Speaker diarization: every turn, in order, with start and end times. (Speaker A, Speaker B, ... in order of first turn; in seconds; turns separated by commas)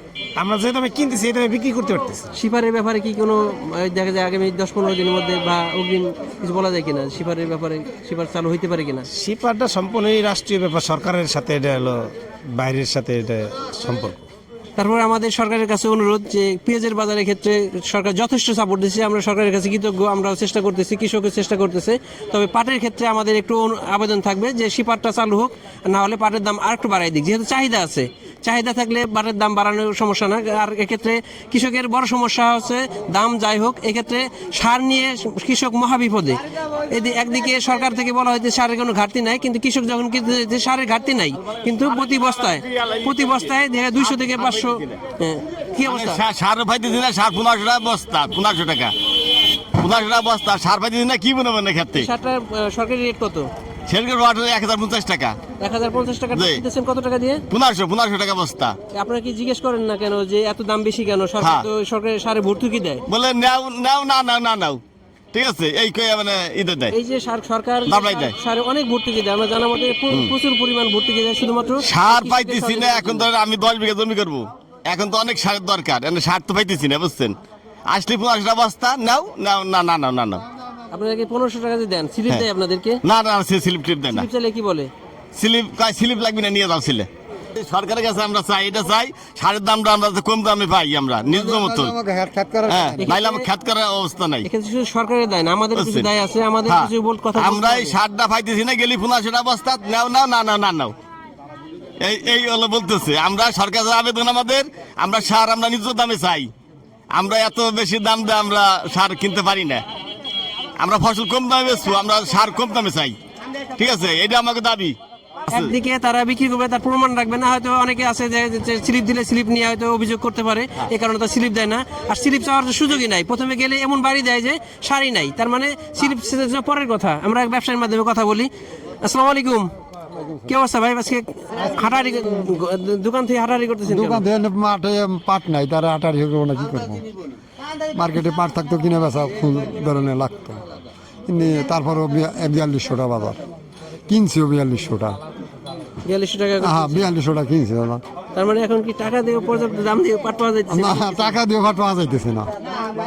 Speaker A: 0.4-2.3, Speaker B: 2.4-9.1, Speaker A: 9.2-12.0, Speaker A: 12.5-14.2, Speaker B: 14.8-46.2, Speaker C: 42.8-43.5, Speaker C: 44.2-44.9, Speaker C: 45.9-48.9, Speaker C: 49.8-52.1, Speaker B: 52.0-53.5, Speaker C: 53.9-55.4, Speaker B: 55.6-57.4, Speaker C: 56.3-56.6, Speaker C: 57.5-58.8, Speaker B: 58.9-63.0, Speaker C: 61.4-61.7, Speaker C: 63.1-64.8, Speaker C: 65.3-67.0, Speaker B: 66.9-73.3, Speaker C: 67.9-68.3, Speaker C: 71.8-77.4, Speaker C: 77.9-80.4, Speaker B: 80.9-83.0, Speaker C: 83.0-84.3, Speaker B: 84.1-84.9, Speaker C: 85.3-92.0, Speaker D: 91.3-93.1, Speaker C: 92.7-94.5, Speaker B: 93.0-93.5, Speaker B: 94.5-98.0, Speaker C: 95.8-96.1, Speaker C: 96.7-100.9, Speaker C: 102.0-106.5, Speaker C: 107.1-109.8, Speaker C: 110.8-113.2, Speaker C: 113.8-115.0, Speaker B: 115.5-128.5, Speaker B: 129.0-129.7, Speaker B: 130.5-134.2, Speaker D: 133.9-137.1, Speaker D: 137.9-140.6, Speaker D: 141.3-143.4, Speaker D: 144.1-145.2, Speaker B: 146.0-147.1, Speaker D: 146.6-148.0, Speaker B: 148.3-151.4, Speaker D: 150.7-152.5